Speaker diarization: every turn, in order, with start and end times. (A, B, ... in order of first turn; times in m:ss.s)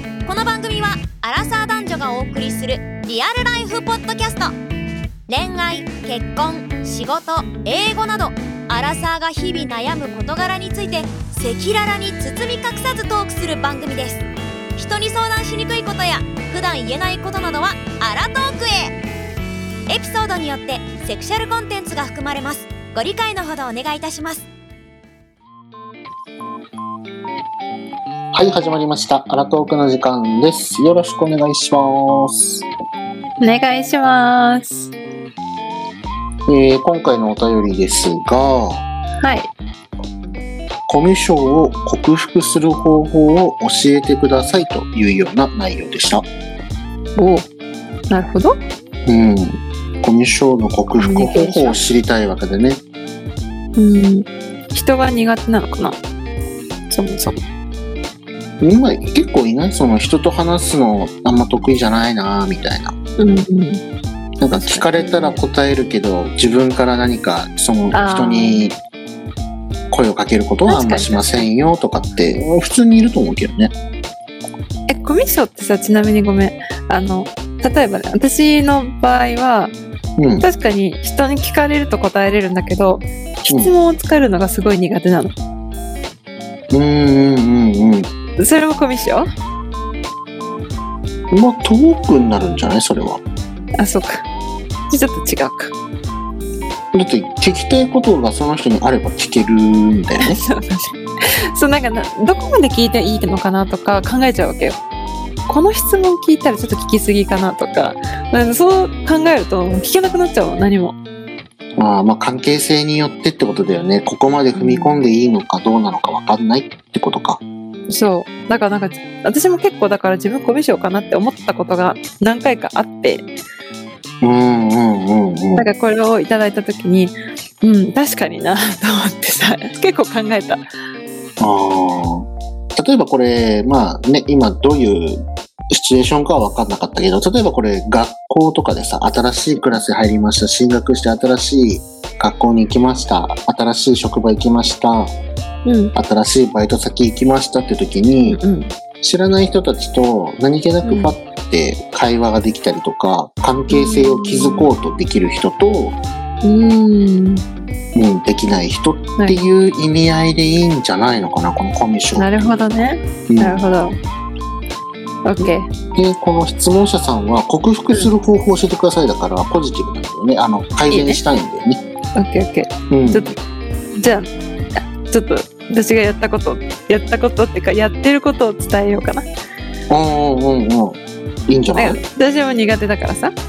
0:00.2-0:04.5 A
0:05.3-0:18.9 A
0:19.9-0:24.5 A
0:28.3-0:32.6 B
0:33.4-0:34.9 C
0:36.5-0:38.8 B
0:39.2-0:39.5 C
0:40.9-0:46.3 B
0:47.2-0:47.5 C
0:48.1-0:48.6 C
0:49.0-0:52.8 B
0:51.0-0:51.8 C
0:53.8-0:56.0 C
0:56.9-0:57.4 C
0:58.6-1:02.9 B
1:03.2-1:03.8 C
1:04.4-1:08.8 B
1:04.5-1:05.4 C
1:07.9-1:08.6 C
1:09.9-1:13.7 B
1:10.7-1:11.4 C
1:14.9-1:19.7 C
1:20.2-1:20.5 B
1:20.4-1:25.3 C
1:23.4-1:23.7 B
1:26.7-1:28.1 B
1:28.4-1:29.3 C
1:31.3-1:33.2 B
1:33.8-1:34.2 C
1:34.9-1:35.7 C
1:36.9-1:40.4 B
1:40.2-1:41.0 C
1:41.5-1:44.8 C
1:45.5-1:51.0 C
1:51.8-1:57.4 B
1:54.5-1:55.0 C
1:57.9-2:03.2 C
2:04.2-2:05.7 B
2:05.6-2:10.6 C
2:11.4-2:25.1 B
2:25.6-2:25.9 C
2:25.9-2:28.4 B
2:28.2-2:28.7 C
2:29.0-2:36.0 B
2:30.8-2:31.1 C
2:33.7-2:34.7 C
2:36.4-2:37.4 C
2:37.9-2:42.6 B
2:39.2-2:39.4 C
2:42.2-2:44.0 C
2:43.3-2:43.6 B
2:45.2-2:45.7 C
2:45.9-2:51.8 B
2:50.9-2:51.2 C
2:52.2-2:53.4 C
2:52.9-2:53.2 B
2:53.9-2:54.3 C
2:54.9-2:59.3 C
2:59.9-3:02.0 B
3:01.7-3:03.3 C